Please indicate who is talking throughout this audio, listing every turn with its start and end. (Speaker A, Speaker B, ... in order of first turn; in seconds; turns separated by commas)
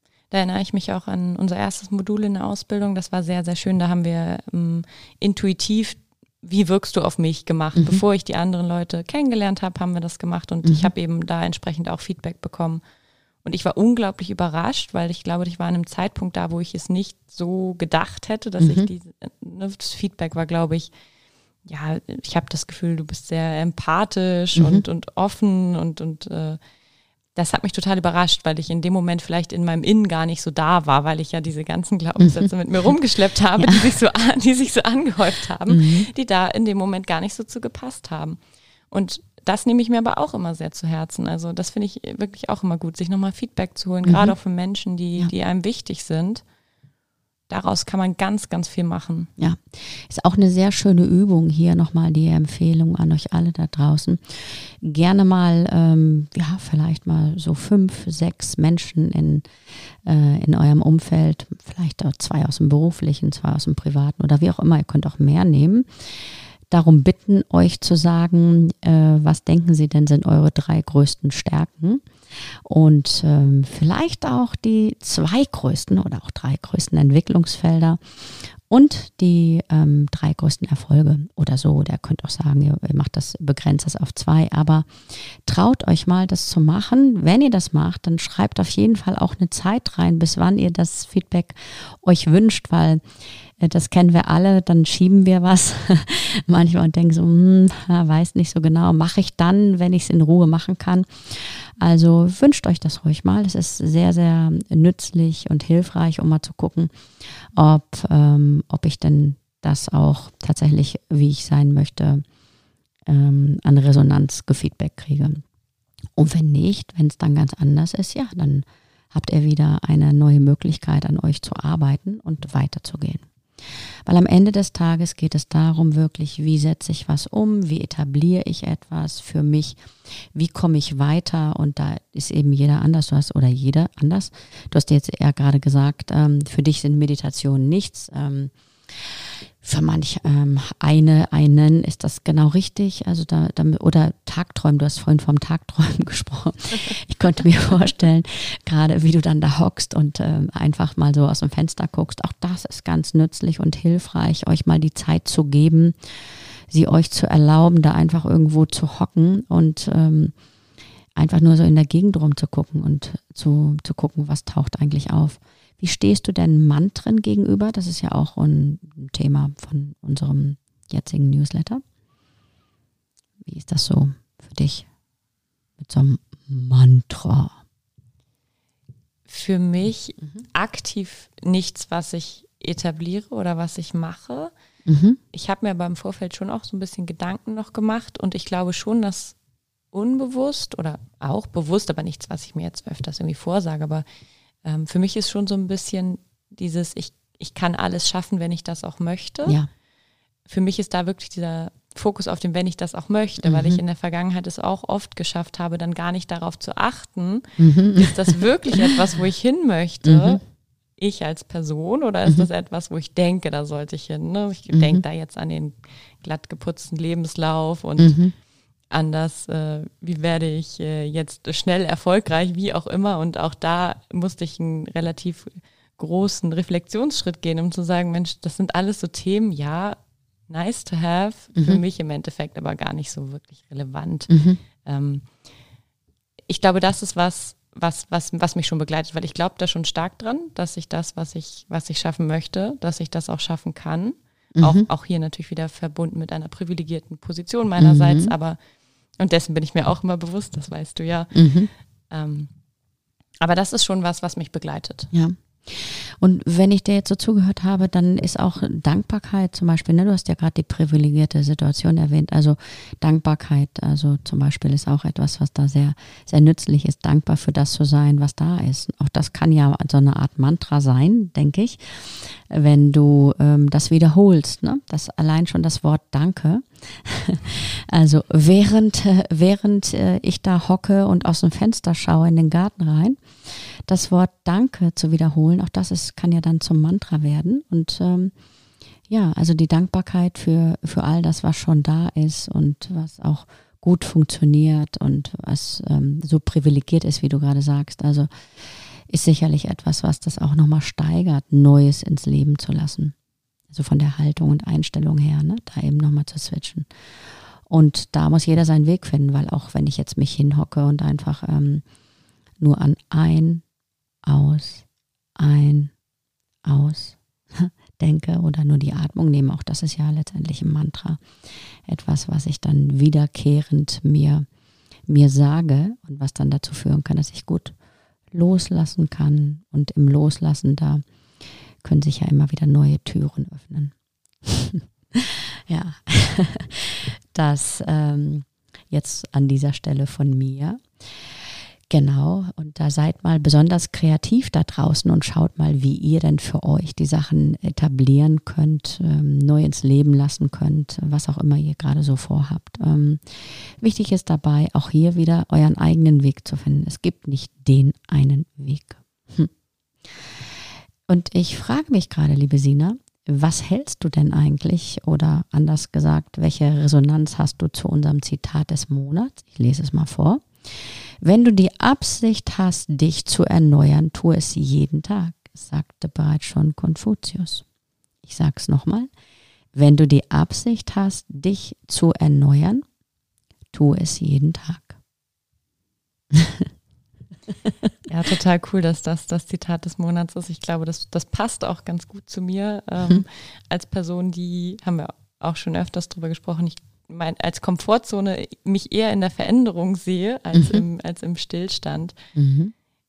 Speaker A: 0.3-12.8, Speaker B: 7.8-8.0, Speaker B: 10.6-10.9, Speaker A: 13.4-20.9, Speaker B: 18.6-18.9, Speaker A: 21.6-26.6, Speaker B: 24.6-24.8, Speaker A: 27.3-38.4, Speaker B: 32.2-32.5, Speaker B: 35.7-36.1, Speaker A: 38.9-46.4, Speaker B: 44.0-44.3, Speaker A: 47.5-49.3, Speaker B: 49.4-59.5, Speaker B: 60.0-93.0, Speaker B: 93.6-106.9, Speaker B: 107.5-112.2, Speaker B: 113.1-115.4, Speaker B: 116.2-160.3, Speaker B: 161.1-171.8, Speaker B: 173.4-174.9, Speaker B: 175.8-177.6, Speaker A: 179.3-184.5, Speaker B: 184.8-185.2, Speaker A: 185.3-189.4, Speaker A: 189.9-194.0, Speaker A: 194.6-199.6, Speaker A: 200.5-210.4, Speaker B: 203.4-203.8, Speaker B: 207.6-208.2, Speaker B: 210.0-210.4, Speaker A: 211.0-218.2, Speaker B: 214.7-215.0, Speaker B: 218.0-218.3, Speaker A: 218.9-230.0, Speaker A: 230.5-234.3, Speaker B: 231.5-231.8, Speaker B: 234.3-234.6, Speaker A: 234.8-235.3, Speaker A: 236.5-248.6, Speaker B: 244.6-244.9, Speaker B: 247.8-248.3, Speaker A: 249.2-251.3, Speaker B: 251.3-251.7, Speaker A: 252.1-252.5, Speaker A: 253.4-255.1, Speaker B: 255.1-288.3, Speaker B: 289.1-303.1, Speaker B: 303.7-306.9, Speaker B: 307.7-311.8, Speaker B: 312.6-313.6, Speaker B: 314.2-314.9, Speaker B: 315.4-315.9, Speaker B: 316.6-321.2, Speaker B: 321.8-324.4, Speaker B: 325.1-327.7, Speaker B: 328.3-331.0, Speaker B: 331.8-359.5, Speaker B: 360.0-360.5, Speaker B: 361.1-377.6, Speaker B: 378.2-379.1, Speaker B: 379.7-382.8, Speaker B: 383.7-384.9, Speaker B: 386.3-386.7, Speaker A: 388.1-402.1, Speaker B: 400.5-400.8, Speaker B: 402.3-402.7